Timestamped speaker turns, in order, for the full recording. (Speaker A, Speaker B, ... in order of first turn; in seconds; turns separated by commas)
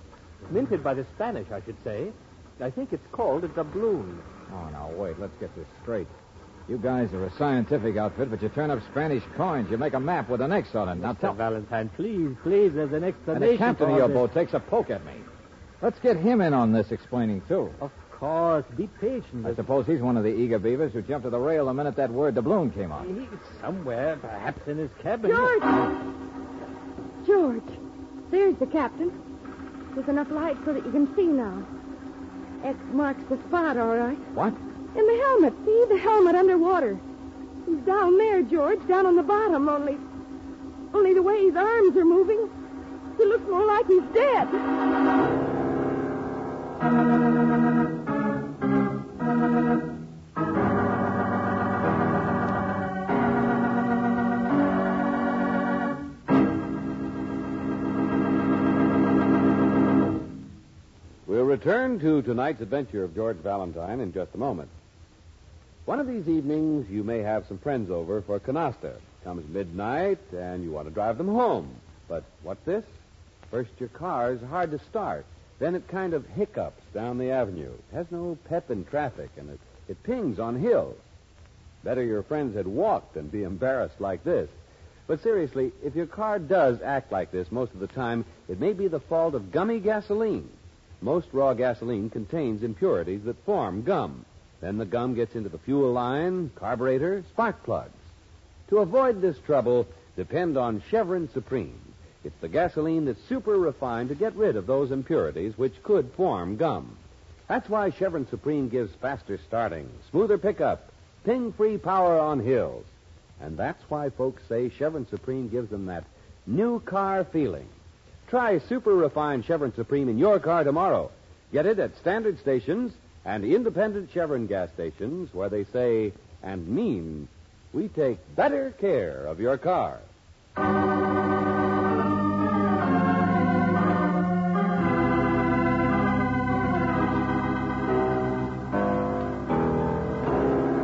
Speaker A: 0.5-4.3, Speaker B: 4.5-6.1, Speaker B: 6.7-11.4, Speaker C: 11.0-14.3, Speaker B: 13.3-15.3, Speaker B: 15.8-17.8, Speaker C: 17.8-19.6, Speaker B: 19.4-23.1, Speaker C: 23.0-25.7, Speaker D: 25.2-25.9, Speaker D: 27.2-27.8, Speaker D: 28.3-29.1, Speaker D: 29.9-31.7, Speaker D: 32.6-34.3, Speaker D: 35.0-37.0, Speaker D: 37.7-40.0, Speaker D: 40.9-42.5, Speaker D: 43.2-44.6, Speaker E: 61.3-64.7, Speaker E: 65.9-72.9, Speaker E: 73.5-81.0, Speaker E: 81.8-84.5, Speaker E: 85.1-97.9, Speaker E: 98.7-117.7, Speaker E: 118.3-130.1